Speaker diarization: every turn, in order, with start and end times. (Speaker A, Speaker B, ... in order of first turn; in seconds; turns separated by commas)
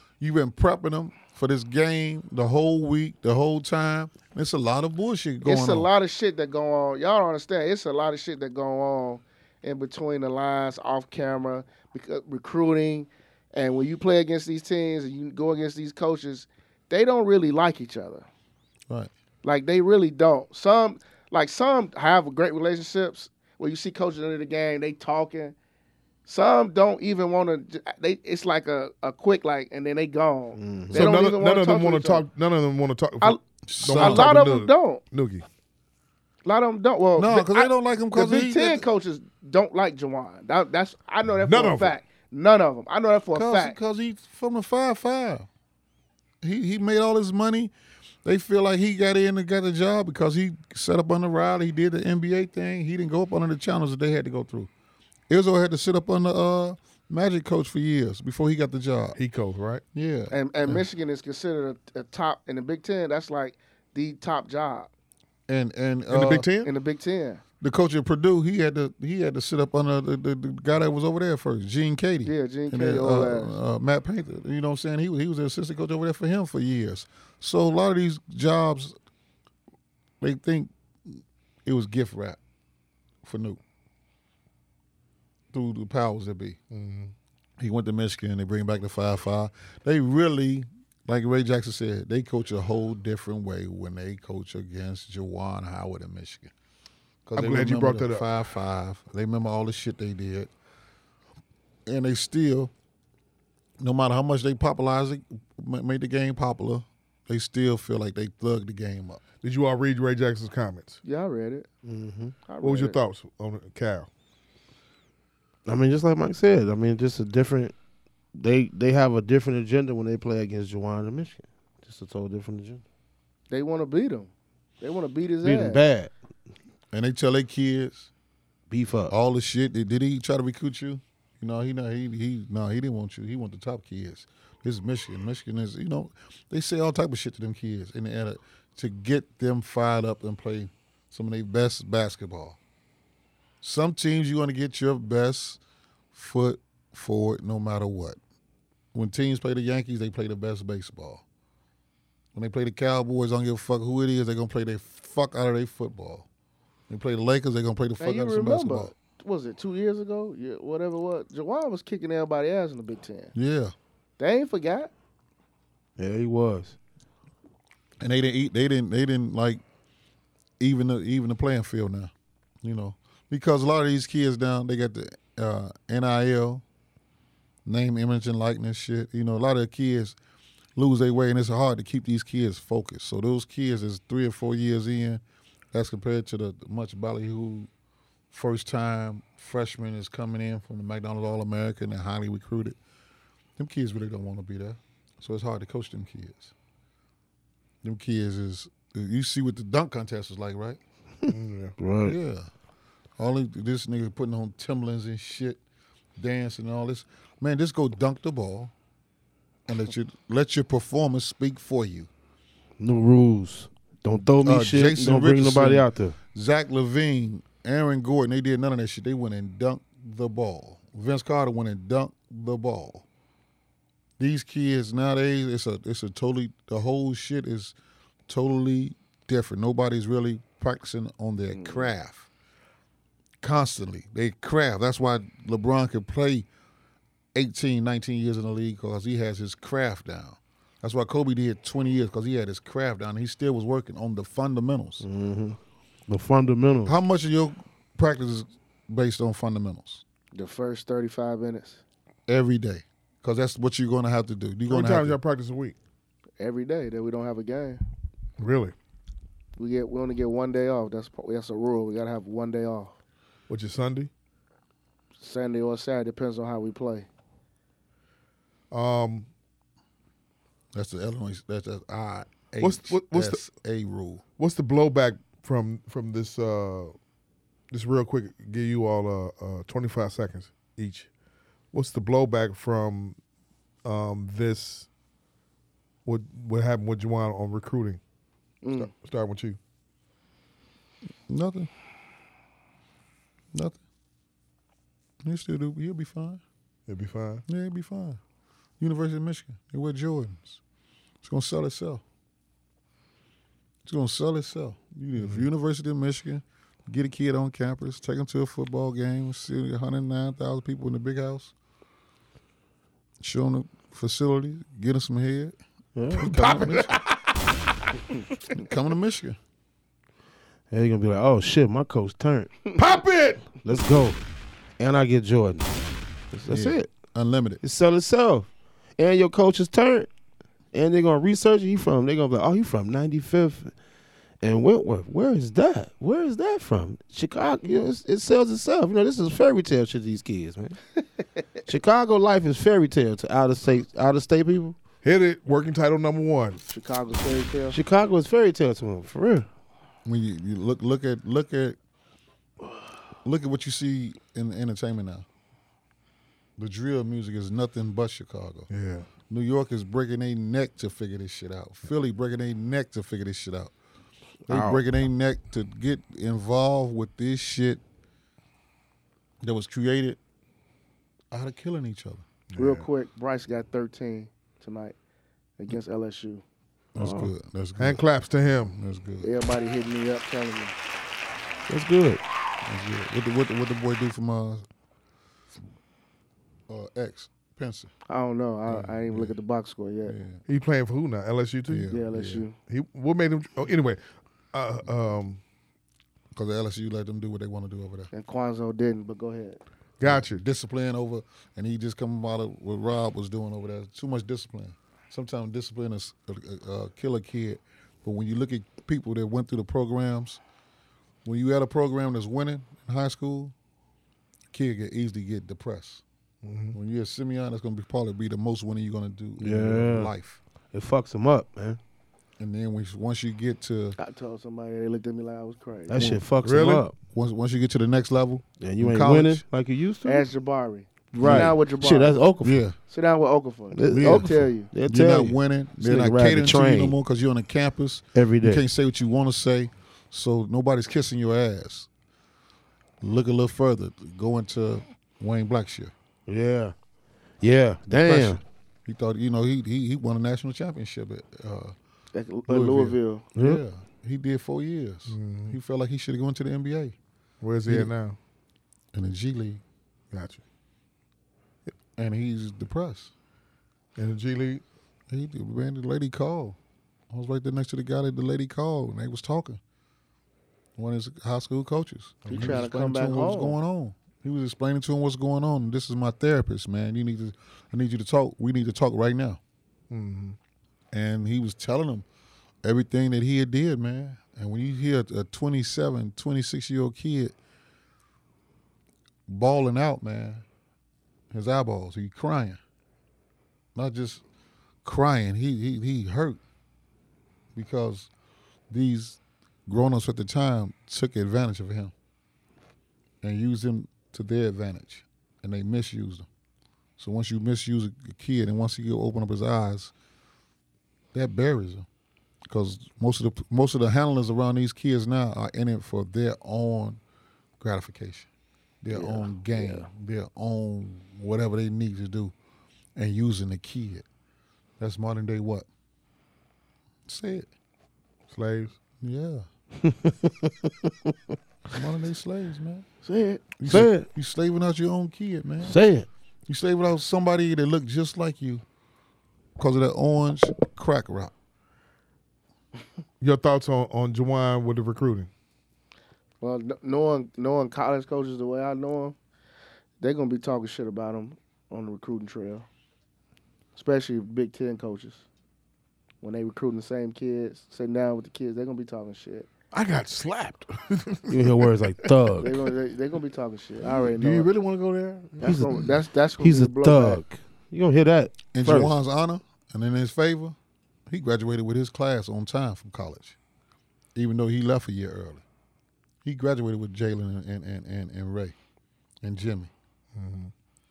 Speaker A: 0.2-5.9, Speaker B: 5.4-18.3, Speaker B: 19.4-25.6, Speaker B: 26.3-32.2, Speaker C: 30.6-31.1, Speaker D: 30.9-35.5, Speaker B: 33.2-35.0, Speaker A: 33.7-34.3, Speaker B: 36.5-43.8, Speaker A: 37.2-38.8, Speaker D: 41.4-42.0, Speaker A: 43.3-45.5, Speaker A: 46.4-47.7, Speaker A: 48.2-54.7, Speaker A: 55.3-59.2, Speaker D: 59.2-59.8, Speaker A: 59.9-60.8, Speaker B: 60.3-64.9, Speaker A: 65.5-66.5, Speaker D: 66.1-66.7, Speaker B: 66.6-67.4, Speaker A: 67.6-78.9, Speaker B: 72.2-73.6, Speaker A: 80.2-82.4, Speaker A: 83.2-83.6, Speaker A: 85.5-86.6, Speaker D: 86.7-87.1, Speaker A: 87.6-96.5, Speaker A: 97.3-100.5, Speaker D: 97.4-98.3, Speaker A: 101.9-102.7, Speaker A: 103.8-109.2, Speaker D: 109.4-111.0, Speaker B: 111.0-111.7, Speaker C: 111.8-112.3, Speaker B: 112.5-113.0, Speaker D: 112.6-114.1, Speaker C: 115.7-117.7, Speaker C: 118.3-122.8, Speaker B: 123.5-125.8, Speaker C: 125.4-126.1, Speaker A: 126.9-128.1, Speaker C: 128.7-129.1, Speaker A: 129.1-142.6, Speaker A: 143.6-145.6, Speaker A: 146.1-148.2, Speaker A: 148.9-151.2, Speaker A: 152.3-156.3, Speaker A: 156.9-158.9, Speaker B: 158.0-163.3, Speaker A: 163.3-163.7, Speaker B: 164.2-164.9, Speaker C: 166.0-166.8, Speaker A: 168.0-169.6, Speaker A: 170.6-176.6, Speaker A: 177.7-180.2, Speaker A: 180.8-187.7, Speaker A: 188.3-192.8, Speaker A: 193.6-196.5, Speaker A: 197.8-200.8, Speaker D: 201.3-201.8, Speaker C: 201.8-202.2, Speaker A: 202.1-202.5, Speaker A: 203.2-205.6, Speaker A: 206.2-208.7, Speaker A: 209.7-212.1, Speaker C: 212.8-216.2, Speaker A: 214.4-223.1, Speaker A: 224.2-227.8, Speaker A: 228.3-232.3, Speaker B: 231.5-231.9, Speaker A: 233.4-236.5, Speaker A: 237.3-245.0, Speaker C: 245.0-246.9, Speaker A: 246.9-250.0, Speaker B: 250.3-251.8, Speaker A: 252.3-255.2, Speaker D: 254.7-255.8, Speaker B: 256.4-257.8, Speaker D: 258.4-258.7, Speaker B: 259.6-263.0, Speaker D: 263.5-264.1, Speaker B: 265.2-267.1, Speaker D: 268.7-269.3, Speaker A: 270.7-274.2, Speaker D: 272.6-273.5, Speaker D: 274.4-276.9, Speaker D: 277.7-281.1, Speaker D: 281.7-283.2, Speaker D: 283.8-284.9, Speaker D: 286.1-288.0, Speaker B: 288.6-288.9, Speaker D: 288.8-289.6, Speaker A: 291.3-291.7, Speaker A: 293.5-293.8, Speaker A: 295.2-296.4, Speaker D: 296.9-297.4, Speaker A: 297.5-298.2, Speaker A: 298.8-300.6, Speaker A: 301.2-302.0, Speaker A: 303.9-311.5, Speaker D: 305.2-305.5, Speaker A: 313.2-315.6, Speaker C: 315.9-316.7, Speaker D: 316.1-317.2, Speaker A: 316.4-316.9, Speaker A: 318.5-319.4, Speaker C: 320.7-322.6, Speaker D: 322.8-323.5, Speaker C: 323.6-324.2, Speaker C: 324.8-325.7, Speaker C: 326.3-326.9, Speaker A: 326.5-327.6, Speaker C: 327.6-330.1, Speaker C: 330.7-333.7, Speaker C: 334.4-340.8, Speaker C: 341.7-344.8, Speaker D: 345.0-346.6, Speaker B: 346.7-347.8, Speaker C: 347.7-349.5, Speaker A: 350.1-351.8, Speaker A: 353.2-355.2, Speaker A: 356.6-358.7, Speaker D: 358.7-359.1, Speaker A: 359.3-363.7, Speaker A: 364.5-367.8, Speaker C: 364.5-364.8, Speaker A: 369.4-370.2, Speaker A: 371.3-372.3, Speaker D: 372.5-372.9, Speaker B: 372.6-374.9, Speaker B: 375.6-376.4, Speaker A: 376.9-378.0, Speaker C: 377.0-377.3, Speaker D: 377.8-378.8, Speaker A: 378.7-379.3, Speaker B: 379.2-380.8, Speaker C: 381.7-382.2, Speaker A: 382.6-384.7, Speaker A: 386.7-387.9, Speaker B: 388.1-390.1, Speaker A: 388.7-389.4, Speaker A: 390.1-390.4, Speaker D: 390.5-391.9, Speaker A: 391.7-392.4, Speaker B: 391.9-392.6, Speaker D: 392.6-394.0, Speaker D: 394.5-395.4, Speaker A: 396.3-398.1, Speaker B: 398.1-399.6, Speaker D: 400.0-400.4, Speaker A: 400.0-410.4, Speaker A: 411.2-413.5, Speaker A: 414.5-416.0, Speaker D: 416.4-416.8, Speaker A: 416.7-420.4, Speaker C: 419.4-420.1, Speaker C: 420.7-421.8, Speaker A: 422.4-424.0, Speaker B: 424.0-426.1, Speaker C: 425.9-427.0, Speaker A: 425.9-426.2, Speaker D: 426.4-426.9, Speaker A: 427.1-429.4, Speaker C: 428.6-430.3, Speaker B: 430.1-432.2, Speaker C: 431.1-432.6, Speaker A: 431.2-431.6, Speaker A: 432.4-432.8, Speaker B: 432.9-434.7, Speaker C: 433.7-437.0, Speaker A: 433.9-441.9, Speaker C: 438.1-438.6, Speaker A: 443.0-445.9, Speaker C: 446.3-446.8, Speaker C: 447.4-448.4, Speaker A: 447.9-451.8, Speaker B: 452.1-453.3, Speaker A: 452.5-457.0, Speaker C: 453.4-453.6, Speaker D: 455.1-455.6, Speaker D: 457.4-458.2, Speaker A: 458.9-459.6, Speaker D: 460.1-460.4, Speaker A: 462.0-463.1, Speaker D: 464.0-464.6, Speaker A: 465.1-466.6, Speaker A: 467.1-469.6, Speaker A: 470.8-479.4, Speaker D: 472.2-472.7, Speaker B: 472.3-473.6, Speaker D: 479.9-480.4, Speaker A: 480.9-482.1, Speaker A: 482.6-487.3, Speaker A: 489.3-490.4, Speaker A: 491.3-492.6, Speaker A: 493.8-494.2, Speaker A: 494.8-496.4, Speaker A: 497.6-498.1, Speaker A: 498.7-501.9, Speaker A: 503.2-506.3, Speaker A: 507.0-509.9, Speaker A: 511.1-511.9, Speaker A: 512.5-517.0, Speaker A: 517.6-518.3, Speaker A: 518.8-522.3, Speaker B: 518.9-519.9, Speaker A: 523.0-524.0, Speaker A: 524.8-525.7, Speaker A: 527.1-527.5, Speaker D: 528.3-528.8, Speaker A: 529.0-529.5, Speaker C: 529.8-530.9, Speaker A: 531.7-532.9, Speaker B: 533.0-533.4, Speaker A: 533.6-535.8, Speaker C: 533.7-534.1, Speaker C: 535.6-536.1, Speaker A: 536.5-538.6, Speaker A: 539.6-541.3, Speaker D: 543.2-545.3, Speaker B: 546.4-549.2, Speaker B: 550.0-552.7, Speaker B: 553.8-555.2, Speaker B: 556.2-559.5, Speaker D: 559.7-562.6, Speaker C: 561.3-562.5, Speaker B: 562.4-564.5, Speaker D: 563.8-565.8, Speaker B: 565.4-567.2, Speaker C: 565.4-569.0, Speaker A: 568.5-570.6, Speaker A: 571.1-573.4, Speaker A: 574.1-575.4, Speaker A: 576.2-578.5, Speaker A: 579.2-579.7, Speaker D: 580.1-580.5